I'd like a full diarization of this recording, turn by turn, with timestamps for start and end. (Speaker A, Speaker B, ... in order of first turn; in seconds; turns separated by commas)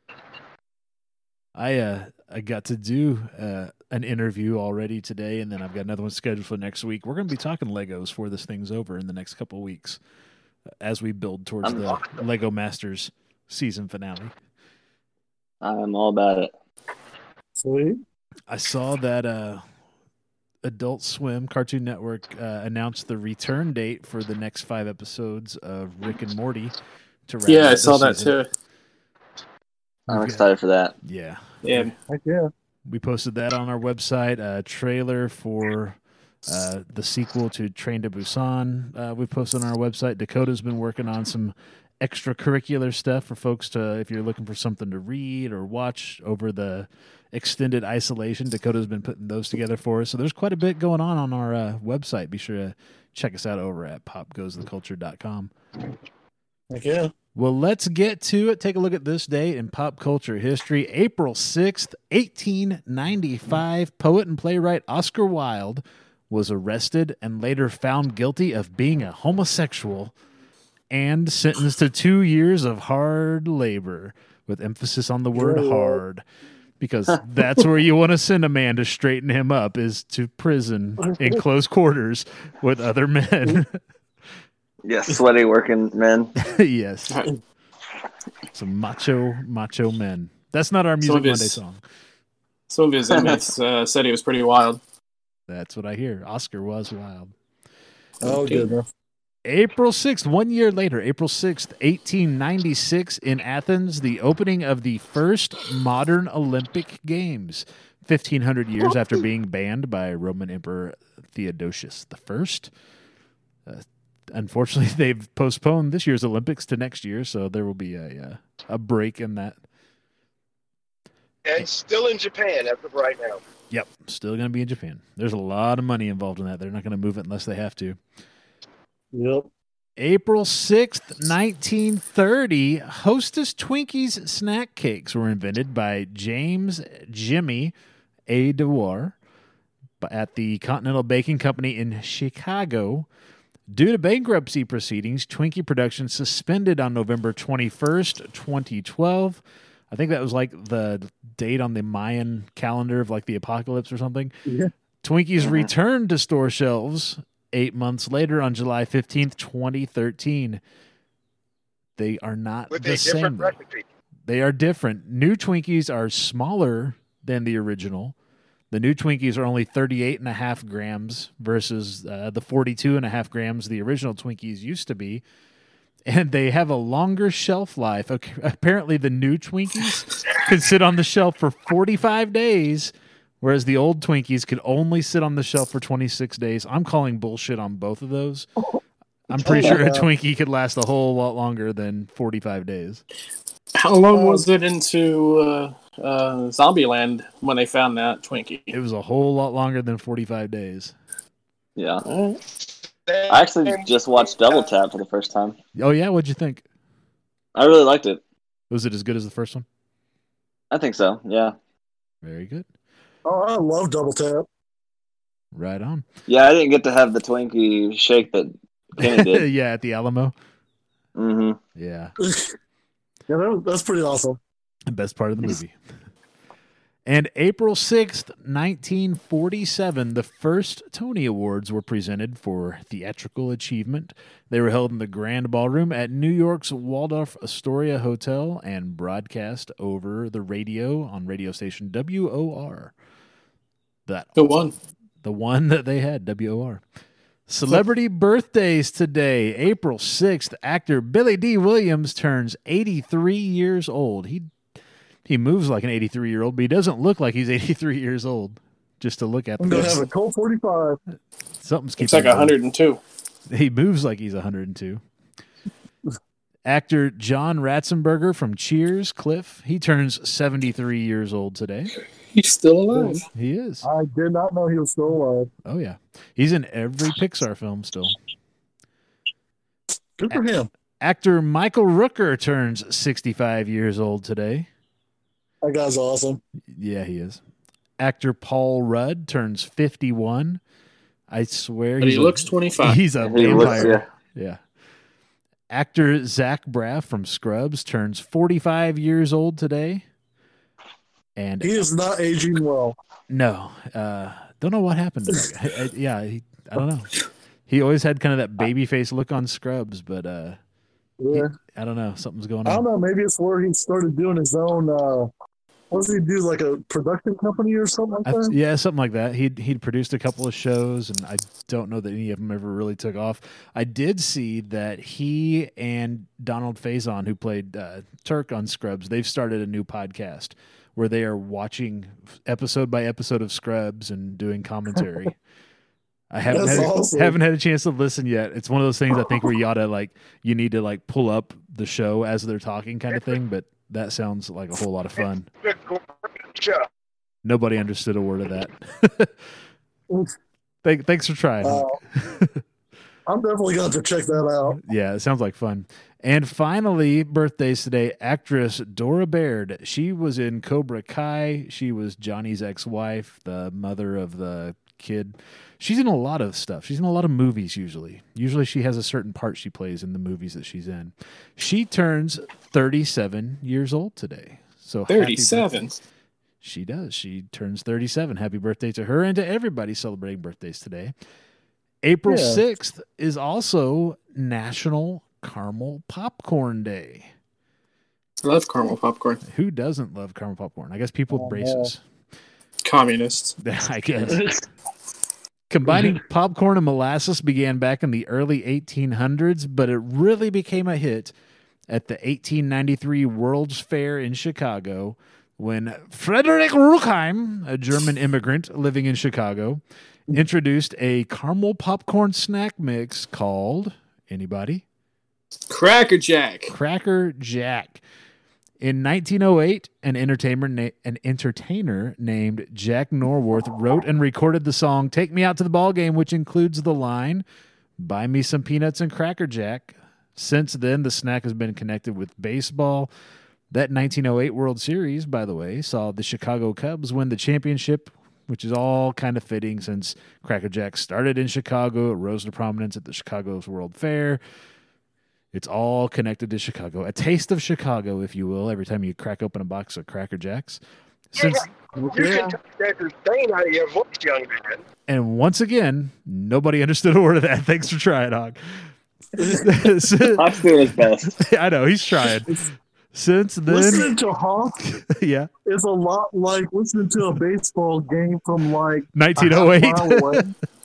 Speaker A: 1.6-10.0, Speaker A: 10.8-14.3, Speaker B: 11.6-12.0, Speaker B: 15.6-16.5, Speaker C: 17.6-18.0, Speaker A: 18.5-19.6, Speaker A: 20.6-26.7, Speaker A: 27.3-28.4, Speaker D: 27.4-28.5, Speaker A: 30.1-30.4, Speaker B: 30.1-30.9, Speaker A: 31.0-31.9, Speaker D: 31.6-31.9, Speaker C: 32.1-32.5, Speaker A: 32.9-55.5, Speaker C: 56.7-57.1, Speaker A: 57.4-70.1, Speaker A: 70.9-76.2, Speaker C: 75.3-76.0, Speaker A: 76.8-83.8, Speaker C: 81.0-81.4, Speaker B: 84.8-86.3, Speaker A: 86.4-87.2, Speaker A: 88.5-91.8, Speaker D: 91.0-91.6, Speaker D: 92.7-94.8, Speaker B: 93.1-93.4, Speaker A: 95.5-97.3, Speaker C: 98.2-98.8, Speaker A: 99.5-112.7, Speaker A: 113.7-119.6, Speaker E: 121.4-123.4, Speaker A: 123.7-128.0, Speaker C: 129.1-129.5, Speaker A: 130.0-137.7, Speaker A: 138.3-139.2, Speaker A: 140.0-143.1, Speaker A: 143.7-154.3, Speaker C: 154.4-154.7, Speaker A: 155.0-160.6, Speaker B: 155.4-155.7, Speaker A: 162.0-163.6, Speaker E: 162.7-163.8, Speaker A: 164.3-168.1, Speaker A: 168.7-175.2, Speaker A: 176.1-188.5, Speaker A: 189.3-193.0, Speaker C: 189.4-190.1, Speaker B: 189.5-189.8, Speaker D: 193.8-198.7, Speaker C: 194.1-194.5, Speaker A: 198.7-200.9, Speaker B: 201.8-202.0, Speaker D: 202.0-202.4, Speaker E: 203.1-204.7, Speaker B: 203.3-205.6, Speaker A: 205.8-206.6, Speaker B: 207.6-208.2, Speaker A: 208.7-209.6, Speaker B: 210.7-211.5, Speaker A: 212.2-212.7, Speaker C: 213.2-214.5, Speaker A: 215.5-216.0, Speaker B: 216.3-219.4, Speaker A: 219.0-220.3, Speaker B: 221.2-221.6, Speaker A: 221.8-222.1, Speaker C: 222.2-222.5, Speaker C: 223.3-224.4, Speaker A: 224.9-225.8, Speaker A: 227.1-242.9, Speaker A: 244.1-244.6, Speaker D: 244.3-244.7, Speaker A: 245.2-246.8, Speaker A: 247.5-254.5, Speaker A: 255.2-260.0, Speaker C: 259.6-261.0, Speaker A: 261.6-262.5, Speaker D: 262.0-263.0, Speaker A: 263.5-265.0, Speaker A: 266.6-271.9, Speaker D: 272.3-273.3, Speaker C: 272.9-273.2, Speaker A: 273.4-273.9, Speaker C: 273.8-275.5, Speaker A: 275.6-278.1, Speaker C: 280.2-280.7, Speaker A: 281.0-284.7, Speaker C: 285.6-286.4, Speaker A: 286.7-287.4, Speaker A: 288.0-290.6, Speaker A: 291.3-294.6, Speaker D: 292.0-293.1, Speaker B: 293.2-294.1, Speaker A: 295.7-300.0, Speaker A: 301.4-301.9, Speaker C: 301.6-303.0, Speaker A: 303.3-307.1, Speaker A: 307.7-310.6, Speaker C: 311.2-311.5, Speaker A: 311.3-312.8, Speaker C: 312.6-315.3, Speaker C: 315.9-318.6, Speaker A: 318.2-335.4, Speaker A: 336.3-345.5, Speaker C: 336.4-337.4, Speaker E: 345.6-346.9, Speaker A: 347.4-349.5, Speaker A: 350.8-352.6, Speaker C: 351.6-352.0, Speaker C: 353.3-354.8, Speaker A: 354.8-375.7, Speaker D: 375.1-376.0, Speaker A: 376.6-381.1, Speaker A: 382.0-387.3, Speaker C: 382.3-382.6, Speaker D: 388.4-389.4, Speaker A: 389.4-392.0, Speaker C: 391.3-391.9, Speaker D: 392.8-393.6, Speaker A: 393.6-394.5, Speaker A: 395.7-401.3, Speaker C: 395.9-396.2, Speaker A: 401.9-409.8, Speaker A: 410.3-414.8, Speaker D: 415.7-416.7, Speaker A: 416.7-418.0, Speaker A: 418.8-427.4, Speaker A: 428.0-433.1, Speaker A: 433.7-444.4, Speaker A: 445.5-450.8, Speaker A: 451.3-451.7, Speaker E: 451.4-454.8, Speaker C: 451.9-452.6, Speaker A: 455.1-458.9, Speaker C: 459.4-459.7, Speaker A: 459.6-460.5, Speaker B: 460.4-461.4, Speaker A: 461.3-462.6, Speaker A: 463.1-464.1, Speaker C: 463.7-464.8, Speaker A: 464.9-465.5, Speaker C: 465.6-470.5, Speaker A: 469.1-470.4